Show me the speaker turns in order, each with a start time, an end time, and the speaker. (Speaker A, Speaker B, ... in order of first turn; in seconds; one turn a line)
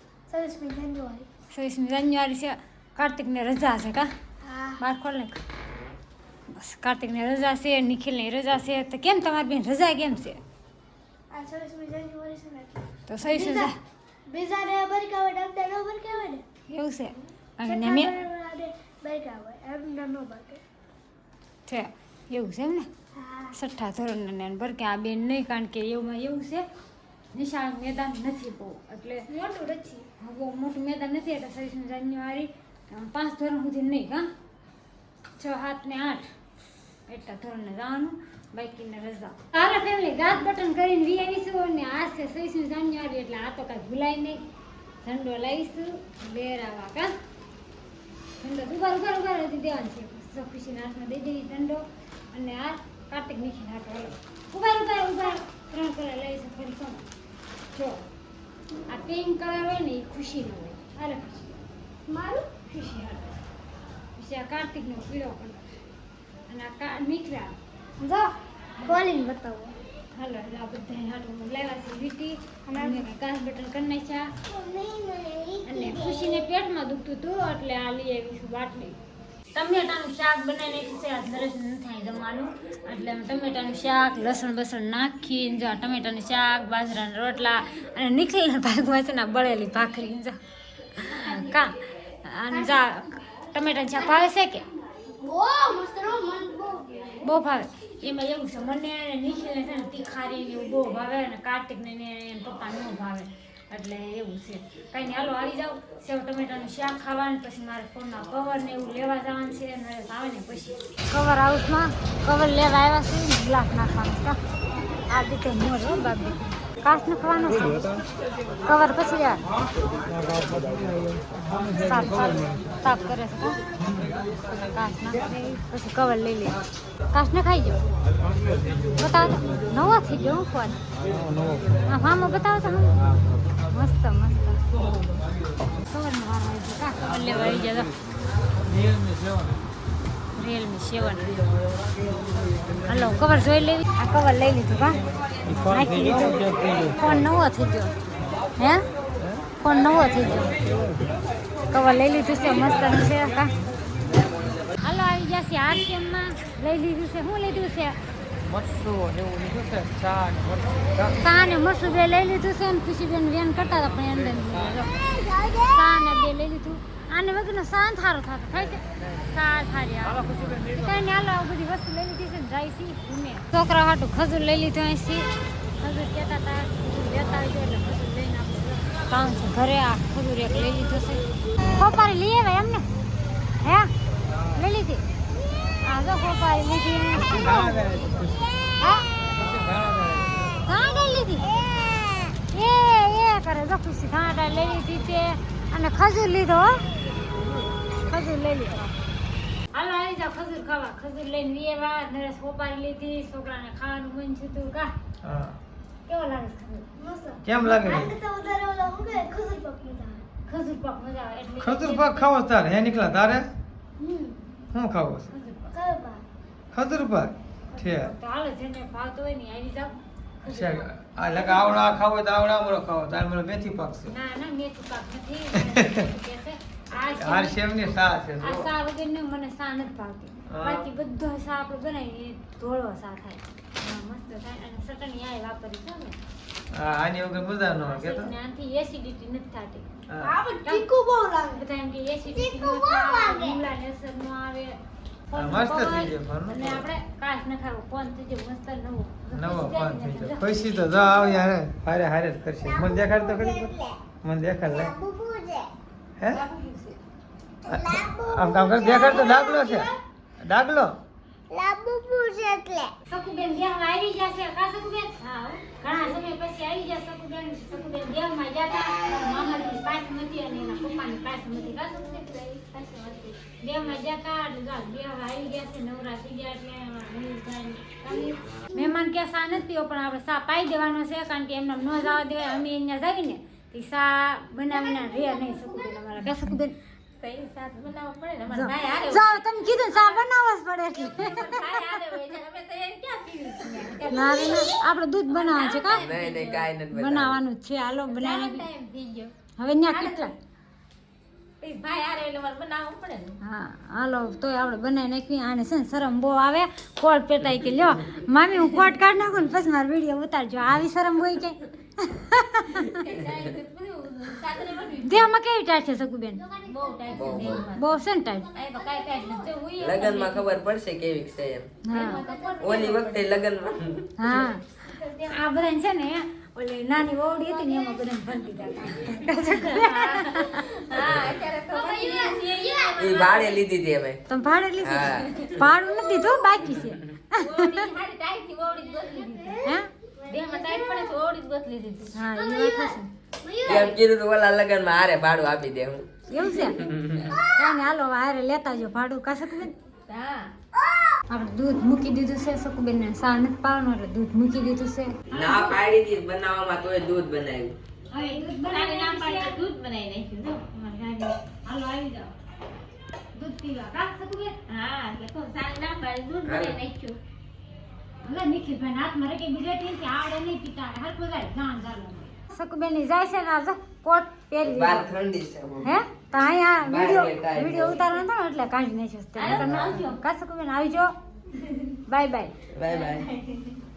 Speaker A: 0.3-1.3
Speaker B: 1.5-4.1
Speaker A: 4.4-4.8
Speaker B: 4.8-5.4
Speaker B: 6.5-10.4
Speaker A: 11.3-13.7
Speaker B: 13.1-13.8
Speaker A: 14.3-16.4
Speaker B: 16.7-18.1
Speaker A: 17.6-20.6
Speaker B: 21.7-22.9
Speaker A: 23.1-23.5
Speaker B: 23.5-26.6
Speaker B: 27.3-29.3
Speaker A: 29.3-30.1
Speaker B: 30.2-34.3
Speaker B: 35.4-36.3
Speaker B: 37.1-44.4
Speaker B: 45.0-47.1
Speaker B: 48.4-57.0
Speaker B: 57.7-58.0
Speaker B: 58.9-61.6
Speaker A: 62.1-62.5
Speaker B: 62.6-63.4
Speaker B: 64.2-65.8
Speaker B: 66.5-67.5
Speaker A: 68.0-68.3
Speaker A: 68.8-69.8
Speaker B: 70.1-74.3
Speaker A: 72.7-73.0
Speaker A: 74.5-76.4
Speaker B: 75.7-79.0
Speaker B: 79.5-90.3
Speaker B: 91.0-94.6
Speaker A: 92.5-92.8
Speaker A: 95.1-97.3
Speaker B: 97.2-114.4
Speaker B: 115.1-118.0
Speaker B: 118.6-119.4
Speaker C: 120.1-122.6
Speaker B: 121.7-123.6
Speaker C: 123.8-124.1
Speaker B: 124.7-126.6
Speaker B: 127.1-127.8
Speaker B: 129.0-130.8
Speaker C: 131.0-131.8
Speaker B: 131.9-133.0
Speaker B: 133.7-134.6
Speaker B: 135.8-137.9
Speaker C: 138.6-139.6
Speaker B: 140.3-141.3
Speaker B: 142.8-145.0
Speaker C: 145.4-147.0
Speaker B: 145.7-147.9
Speaker B: 148.6-148.8
Speaker C: 149.2-149.4
Speaker B: 149.6-150.5
Speaker C: 150.6-151.0
Speaker B: 151.7-153.5
Speaker B: 154.8-157.9
Speaker C: 158.4-161.2
Speaker B: 161.2-182.8
Speaker C: 170.1-171.0
Speaker B: 183.6-183.9
Speaker C: 184.2-184.7
Speaker B: 184.5-185.0
Speaker B: 185.8-187.8
Speaker C: 187.1-188.5
Speaker B: 188.8-189.1
Speaker C: 189.3-190.6
Speaker B: 190.7-191.6
Speaker B: 192.5-196.9
Speaker B: 197.9-198.9
Speaker B: 199.7-204.9
Speaker C: 205.2-205.6
Speaker B: 206.1-206.8
Speaker A: 207.0-210.2
Speaker C: 207.4-208.1
Speaker B: 210.4-212.3
Speaker C: 211.6-213.5
Speaker A: 214.0-214.4
Speaker C: 214.7-215.3
Speaker B: 215.3-215.7
Speaker A: 215.7-216.2
Speaker C: 216.7-218.1
Speaker B: 217.7-220.8
Speaker C: 220.4-224.1
Speaker B: 224.1-227.6
Speaker C: 227.1-228.7
Speaker B: 228.4-236.2
Speaker C: 230.5-230.9
Speaker C: 236.7-238.3
Speaker B: 237.8-239.8
Speaker C: 240.1-240.3
Speaker A: 240.2-241.6
Speaker B: 241.5-250.9
Speaker A: 242.3-243.6
Speaker C: 245.3-246.8
Speaker C: 249.3-255.0
Speaker A: 252.8-254.0
Speaker A: 254.7-255.7
Speaker C: 256.2-256.4
Speaker B: 256.3-257.0
Speaker C: 257.7-261.0
Speaker A: 257.7-260.0
Speaker A: 261.5-262.9
Speaker B: 263.1-272.3
Speaker D: 272.0-273.4
Speaker B: 273.6-286.7
Speaker A: 284.7-285.9
Speaker D: 287.2-290.2
Speaker B: 288.5-291.6
Speaker D: 291.1-294.8
Speaker B: 294.0-296.1
Speaker A: 294.2-294.5
Speaker D: 295.3-296.7
Speaker E: 295.9-297.4
Speaker B: 296.9-298.7
Speaker D: 298.1-299.3
Speaker B: 299.6-300.3
Speaker D: 299.8-300.3
Speaker D: 301.6-303.4
Speaker B: 303.4-313.0
Speaker D: 312.8-315.3
Speaker B: 315.0-316.4
Speaker D: 316.6-317.9
Speaker E: 317.1-317.6
Speaker B: 317.5-318.5
Speaker D: 318.5-320.5
Speaker B: 319.5-319.9
Speaker E: 319.8-321.7
Speaker B: 321.8-322.2
Speaker D: 321.9-323.4
Speaker A: 322.2-322.6
Speaker E: 322.6-324.4
Speaker B: 324.2-330.8
Speaker D: 329.6-333.6
Speaker B: 331.8-332.3
Speaker A: 332.0-333.0
Speaker E: 333.0-334.2
Speaker B: 334.3-337.9
Speaker E: 334.8-335.7
Speaker D: 335.0-335.5
Speaker D: 337.4-339.6
Speaker A: 338.9-341.1
Speaker B: 339.6-339.9
Speaker D: 340.3-342.1
Speaker B: 342.1-343.1
Speaker A: 342.3-344.0
Speaker E: 343.6-346.1
Speaker B: 346.3-346.8
Speaker E: 346.7-347.3
Speaker B: 347.4-349.8
Speaker D: 350.1-350.5
Speaker B: 351.3-355.7
Speaker E: 355.3-357.8
Speaker B: 358.1-359.6
Speaker D: 358.6-360.7
Speaker B: 360.7-362.3
Speaker B: 363.3-364.5
Speaker D: 364.7-367.2
Speaker E: 366.4-366.8
Speaker B: 368.2-375.1
Speaker E: 374.6-375.9
Speaker B: 375.8-381.1
Speaker E: 376.8-378.0
Speaker D: 379.4-380.2
Speaker E: 379.5-379.9
Speaker B: 382.1-382.5
Speaker E: 382.7-383.3
Speaker D: 382.8-383.8